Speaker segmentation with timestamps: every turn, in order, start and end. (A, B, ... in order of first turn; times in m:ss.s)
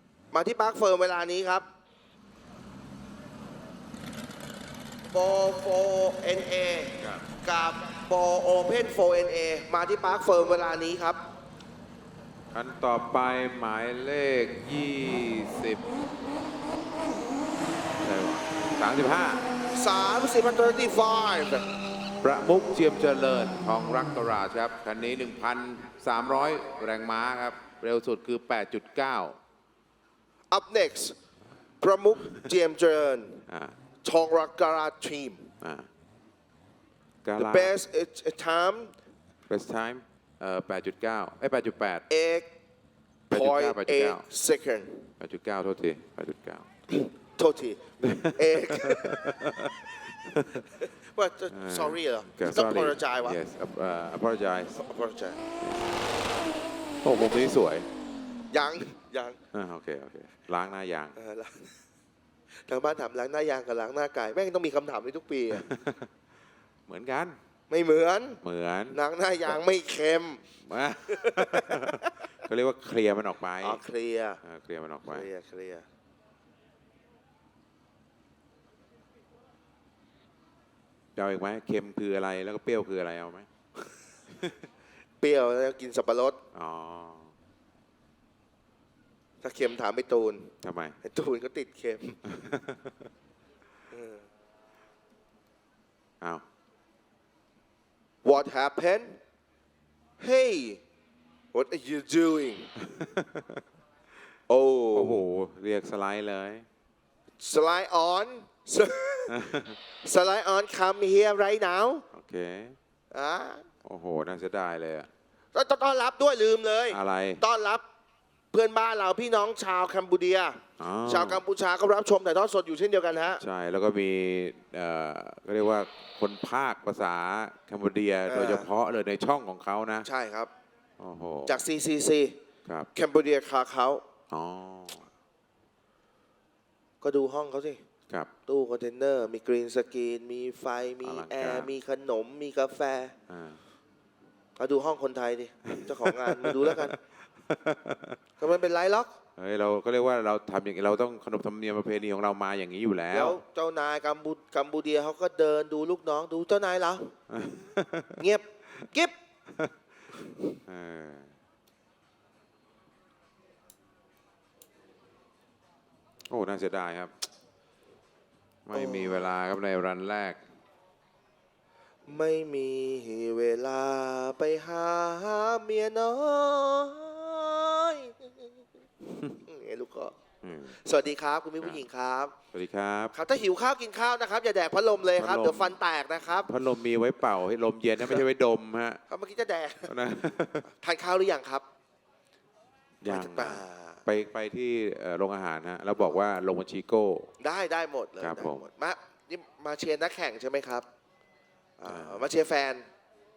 0:00.3-0:01.7 A
0:05.1-0:11.2 A
0:07.0-0:07.2 B
0:12.5-0:15.9 B
0:18.0-0:19.4 B
0:19.7-0:21.6 A
0:22.2-0:29.4 B
0:30.5-0:31.2 A
0:31.8-0:33.4 A
0:33.5-0:33.8 B
0:34.0-0:35.5 A
0:35.6-0:35.9 B
0:37.2-0:37.8 B
0:37.4-0:38.9 A
0:39.5-0:42.0 B
0:42.1-0:42.5 A
0:43.3-0:44.3 B
0:43.3-0:45.1 A
0:45.2-0:46.6 B
0:46.9-0:49.4 A
0:48.0-0:50.7 B
0:50.6-0:53.4 A
0:51.5-0:54.8 B
0:54.8-0:55.4 A
0:55.6-0:55.9 B
0:57.0-0:57.9 B
0:58.5-0:59.4 A
0:59.5-1:01.2 B
1:01.2-1:01.7 A
1:02.6-1:05.7 A
1:05.5-1:06.1 B
1:06.9-1:07.4 B
1:07.7-1:08.4 A
1:08.4-1:09.0 B
1:08.9-1:10.5 A
1:10.6-1:13.8 B
1:11.1-1:12.2 A
1:13.6-1:14.4 A
1:14.4-1:15.3 B
1:15.1-1:15.9 A
1:21.2-1:23.5 B
1:25.2-1:26.4 A
1:26.5-1:27.3 B
1:29.4-1:32.2 A
1:30.6-1:31.0 B
1:32.3-1:32.9 B
1:33.9-1:34.2 A
1:38.2-1:39.2 A
1:40.2-1:40.8 A
1:41.5-1:42.8 A
1:43.0-1:43.5 B
1:44.5-1:45.2 A
1:44.9-1:46.6 B
1:47.4-1:49.4 A
1:49.3-1:49.8 B
1:50.0-1:52.1 A
1:52.1-1:52.8 B
1:53.1-1:53.7 A
1:53.8-1:55.1 B
1:55.5-1:57.8 A
1:56.9-1:57.4 B
1:58.5-2:03.4 A
2:00.8-2:01.4 B
2:03.4-2:10.1 B
2:08.3-2:08.7 A
2:10.0-2:10.5 A
2:11.0-2:11.6 B
2:11.5-2:12.4 A
2:12.9-2:14.0 A
2:14.3-2:15.1 B
2:17.0-2:17.8 A
2:18.5-2:23.1 A
2:21.0-2:21.7 B
2:23.3-2:23.6 B
2:24.6-2:27.0 A
2:25.7-2:28.2 B
2:28.4-2:29.1 A
2:29.4-2:33.4 B
2:33.1-2:37.1 A
2:37.3-2:38.2 B
2:38.2-2:39.2 A
2:40.7-2:41.3 B
2:46.3-2:47.3 B
2:48.6-2:50.4 B
2:48.7-2:49.3 A
2:52.1-2:58.5 A
2:59.3-3:00.1 A
3:00.4-3:00.8 B
3:00.7-3:02.3 A
3:01.6-3:01.8 B
3:02.5-3:03.1 B
3:03.1-3:06.5 A
3:05.2-3:05.8 B
3:06.5-3:09.0 B
3:09.1-3:09.9 A
3:09.9-3:10.6 B
3:10.6-3:11.7 A
3:13.0-3:17.3 B
3:13.0-3:14.0 A
3:17.4-3:20.9 A
3:18.2-3:18.6 B
3:21.8-3:22.9 A
3:21.8-3:22.3 B